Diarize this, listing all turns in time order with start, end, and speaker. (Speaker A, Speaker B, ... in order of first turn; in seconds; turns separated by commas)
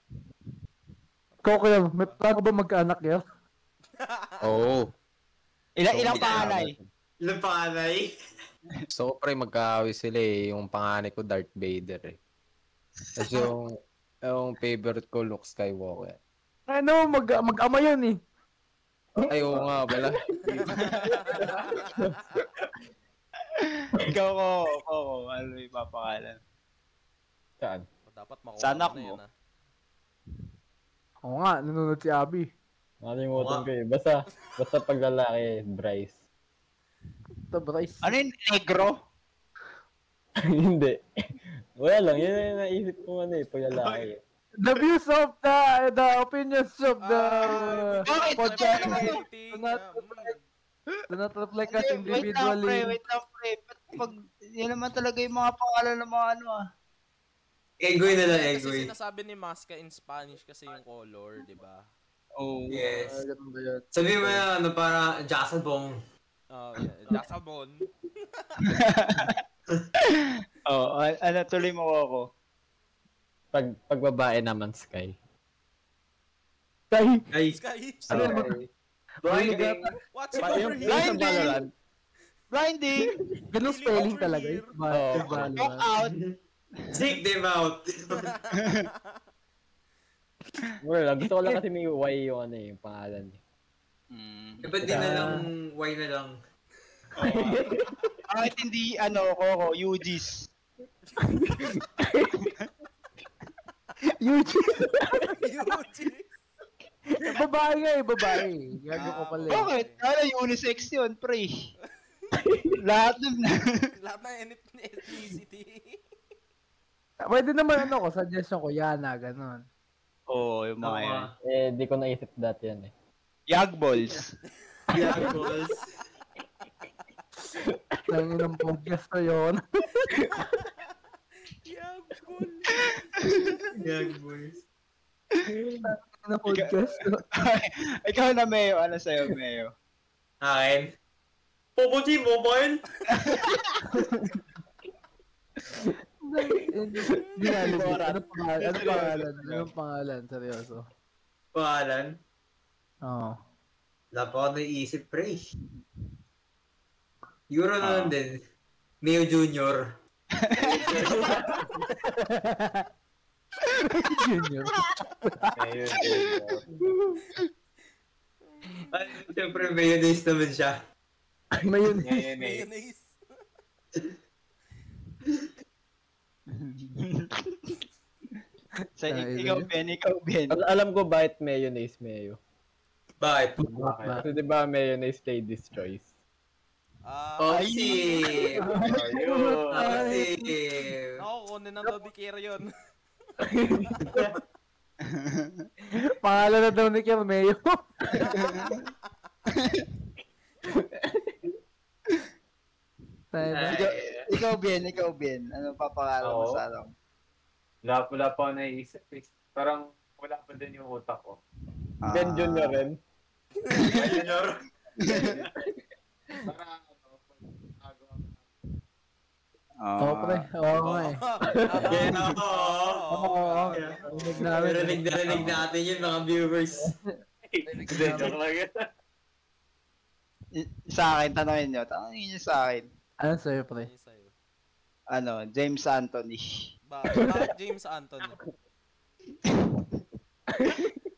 Speaker A: 1.3-2.2, Speaker B: 1.4-3.2, Speaker A: 4.0-4.6, Speaker C: 4.4-4.9, Speaker D: 5.8-6.7, Speaker C: 5.9-6.8, Speaker E: 6.1-6.5, Speaker E: 7.2-8.1, Speaker C: 8.9-12.2, Speaker C: 13.2-13.7, Speaker D: 13.2-13.5, Speaker C: 14.3-16.2, Speaker B: 16.7-18.2, Speaker C: 19.3-20.6, Speaker A: 20.6-22.4, Speaker D: 20.7-21.4, Speaker D: 23.6-26.4, Speaker F: 27.6-27.9, Speaker A: 28.1-29.3, Speaker D: 28.6-29.2, Speaker B: 31.2-32.5, Speaker F: 33.0-36.2, Speaker E: 33.3-33.7, Speaker B: 37.5-38.1, Speaker D: 38.0-39.0, Speaker F: 40.5-41.0, Speaker F: 41.8-44.2, Speaker B: 44.6-50.3, Speaker A: 47.0-50.4, Speaker D: 47.5-49.2, Speaker B: 51.1-52.9, Speaker D: 51.7-56.5, Speaker E: 57.8-58.9, Speaker A: 58.0-61.9, Speaker D: 62.4-62.8, Speaker E: 62.7-63.2, Speaker B: 62.9-64.4, Speaker E: 63.9-66.0, Speaker A: 66.5-68.8, Speaker D: 68.6-69.4, Speaker D: 70.1-72.2, Speaker F: 73.5-75.1, Speaker B: 76.9-77.2, Speaker E: 77.3-77.6, Speaker A: 77.5-78.3, Speaker B: 78.1-78.5, Speaker G: 78.1-78.4, Speaker G: 79.2-79.8, Speaker B: 79.3-79.9, Speaker E: 79.3-79.7, Speaker A: 80.1-81.5, Speaker F: 80.4-81.7, Speaker D: 80.8-81.6, Speaker D: 82.5-83.1, Speaker B: 83.5-85.8, Speaker A: 83.6-84.7, Speaker F: 84.9-85.5, Speaker D: 85.5-86.1, Speaker E: 86.0-86.4, Speaker D: 86.8-87.1, Speaker E: 86.9-88.3, Speaker A: 88.1-89.2, Speaker D: 88.6-88.8, Speaker F: 90.8-93.4, Speaker D: 94.1-94.6, Speaker E: 94.6-96.4, Speaker B: 94.9-95.5, Speaker D: 97.2-97.6, Speaker F: 97.2-97.7, Speaker D: 98.3-100.5, Speaker A: 101.1-101.5, Speaker B: 104.2-105.3, Speaker A: 105.4-106.3, Speaker B: 107.2-109.7, Speaker A: 109.0-110.0, Speaker D: 109.0-111.5, Speaker D: 112.8-113.8, Speaker A: 114.0-116.0, Speaker B: 117.2-119.6, Speaker D: 120.3-121.3, Speaker E: 120.8-121.3, Speaker F: 121.4-122.9, Speaker D: 123.5-124.3, Speaker A: 124.7-125.6, Speaker E: 124.9-125.9, Speaker B: 128.1-129.8, Speaker A: 130.4-130.9, Speaker A: 131.6-133.0, Speaker D: 132.8-133.6, Speaker E: 133.7-134.6, Speaker B: 135.8-137.2, Speaker D: 136.5-136.8, Speaker D: 137.3-139.7, Speaker E: 140.4-140.9, Speaker E: 141.8-142.8, Speaker D: 143.1-143.8, Speaker B: 143.9-144.4, Speaker B: 146.2-150.8, Speaker D: 147.7-148.1, Speaker D: 148.6-149.7, Speaker E: 151.5-152.2, Speaker B: 153.0-153.4, Speaker E: 154.1-155.4, Speaker E: 157.5-158.4, Speaker E: 159.0-159.9, Speaker D: 160.4-161.3, Speaker A: 160.8-161.3, Speaker E: 160.9-161.3, Speaker B: 162.2-162.8, Speaker B: 163.9-165.5, Speaker G: 165.6-166.6, Speaker D: 166.0-166.4, Speaker A: 168.5-169.2, Speaker E: 168.9-170.8, Speaker B: 171.6-172.1, Speaker G: 172.0-172.7, Speaker A: 172.3-173.2, Speaker D: 176.5-177.8, Speaker D: 179.0-180.6, Speaker B: 179.1-179.7, Speaker F: 180.5-182.4, Speaker E: 183.2-183.7, Speaker B: 183.6-184.2, Speaker G: 183.7-184.2, Speaker F: 184.2-186.1, Speaker A: 187.0-188.5, Speaker E: 187.4-188.7, Speaker D: 187.5-189.0, Speaker B: 188.6-190.6, Speaker G: 188.8-190.0, Speaker E: 189.7-191.2, Speaker A: 191.2-192.7, Speaker A: 193.7-194.2, Speaker E: 194.1-194.4, Speaker D: 195.1-195.6, Speaker B: 196.2-198.4, Speaker A: 198.1-198.9, Speaker D: 198.3-198.8, Speaker D: 199.6-199.8, Speaker B: 203.3-203.8, Speaker E: 203.5-204.3, Speaker D: 203.7-206.9, Speaker G: 206.2-206.6, Speaker G: 207.8-211.4, Speaker D: 212.0-212.8, Speaker F: 212.1-213.0, Speaker D: 213.8-214.2, Speaker E: 213.9-214.6, Speaker G: 213.9-214.3, Speaker D: 215.0-215.3, Speaker G: 215.1-215.5, Speaker G: 216.4-218.4, Speaker D: 219.8-220.4, Speaker B: 220.0-221.9, Speaker A: 220.8-226.5, Speaker E: 221.8-223.1, Speaker B: 223.1-225.5, Speaker E: 223.7-226.9, Speaker G: 227.4-228.7, Speaker B: 227.6-228.3, Speaker D: 230.6-232.8, Speaker B: 233.2-233.9, Speaker A: 233.8-234.3, Speaker D: 235.1-236.4, Speaker A: 236.9-238.4, Speaker D: 239.5-239.8